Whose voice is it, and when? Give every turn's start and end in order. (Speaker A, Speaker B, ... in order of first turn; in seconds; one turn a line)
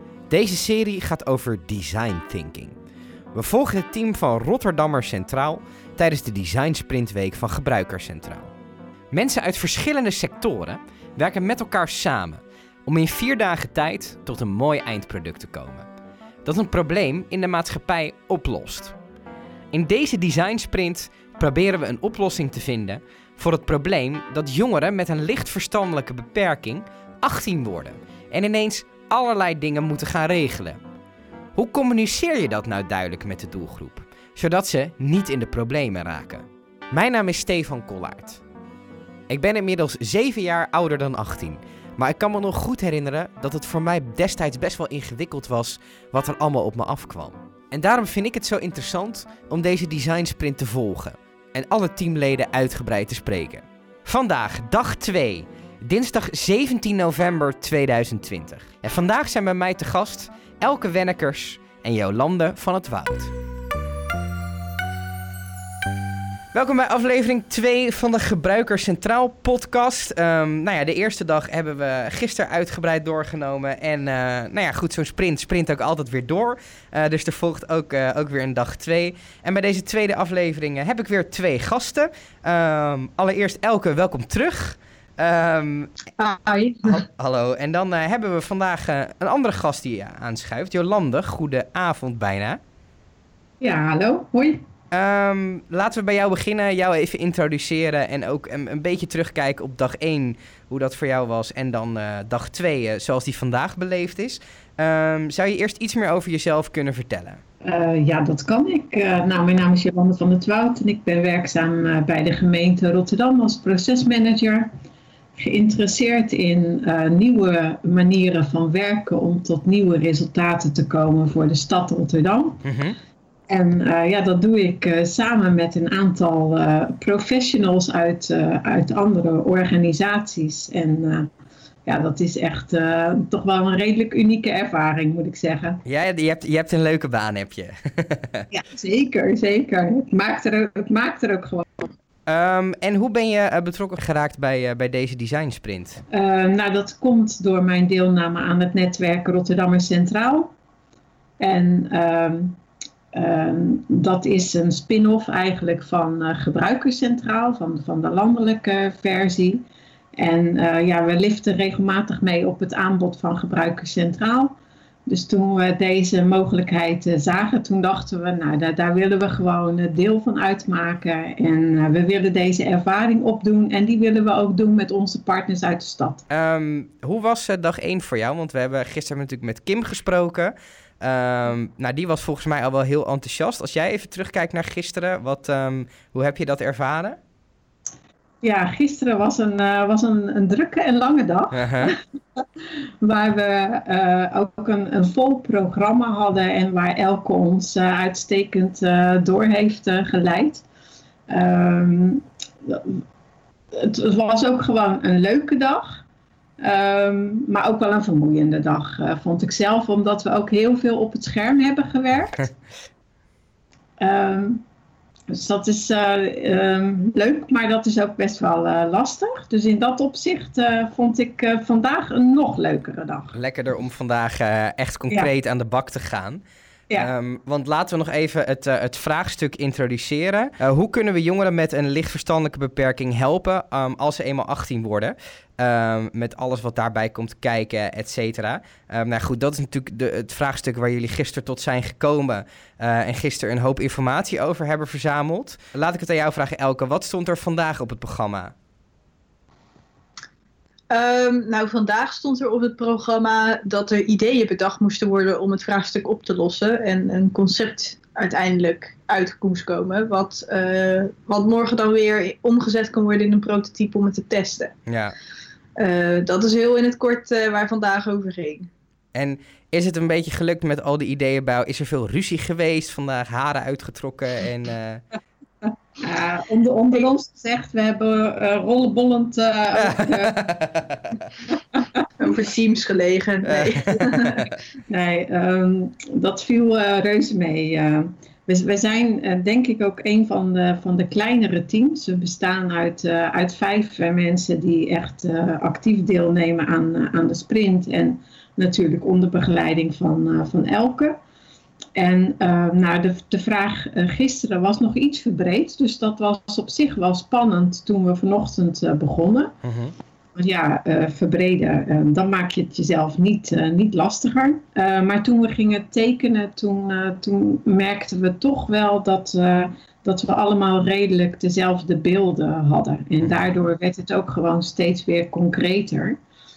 Speaker A: 0.3-2.7
Speaker A: 3.3-8.5
Speaker A: 9.1-15.9
Speaker A: 16.4-18.9
Speaker A: 19.7-30.8
Speaker A: 31.5-38.4
Speaker A: 39.3-63.3
Speaker A: 66.5-85.9
Speaker B: 86.2-87.0
Speaker A: 86.8-92.6
Speaker C: 93.6-94.6
Speaker A: 94.9-107.4
Speaker C: 107.6-114.7
Speaker C: 115.4-122.6
Speaker A: 122.7-123.0
Speaker C: 123.5-131.3
Speaker C: 131.8-135.8
Speaker A: 135.8-138.4
Speaker C: 138.5-141.9
Speaker A: 142.3-146.0
Speaker C: 146.1-150.5
Speaker C: 151.4-152.6
Speaker C: 153.1-159.6
Speaker C: 160.2-164.5
Speaker C: 165.1-176.2
Speaker A: 176.3-187.2
Speaker C: 188.4-192.4
Speaker A: 191.5-191.9
Speaker C: 193.0-200.6
Speaker C: 201.3-203.0
Speaker C: 203.7-206.0
Speaker C: 206.6-212.5
Speaker C: 214.0-214.6
Speaker C: 215.3-223.3
Speaker A: 223.3-248.5
Speaker B: 250.9-264.8
Speaker A: 264.9-265.1
Speaker B: 265.8-268.7
Speaker A: 269.1-275.0
Speaker C: 276.0-280.4
Speaker A: 280.0-281.2
Speaker B: 282.2-284.5
Speaker A: 283.6-284.3
Speaker C: 284.9-301.1
Speaker C: 301.9-309.5
Speaker A: 309.6-309.9
Speaker C: 310.3-326.2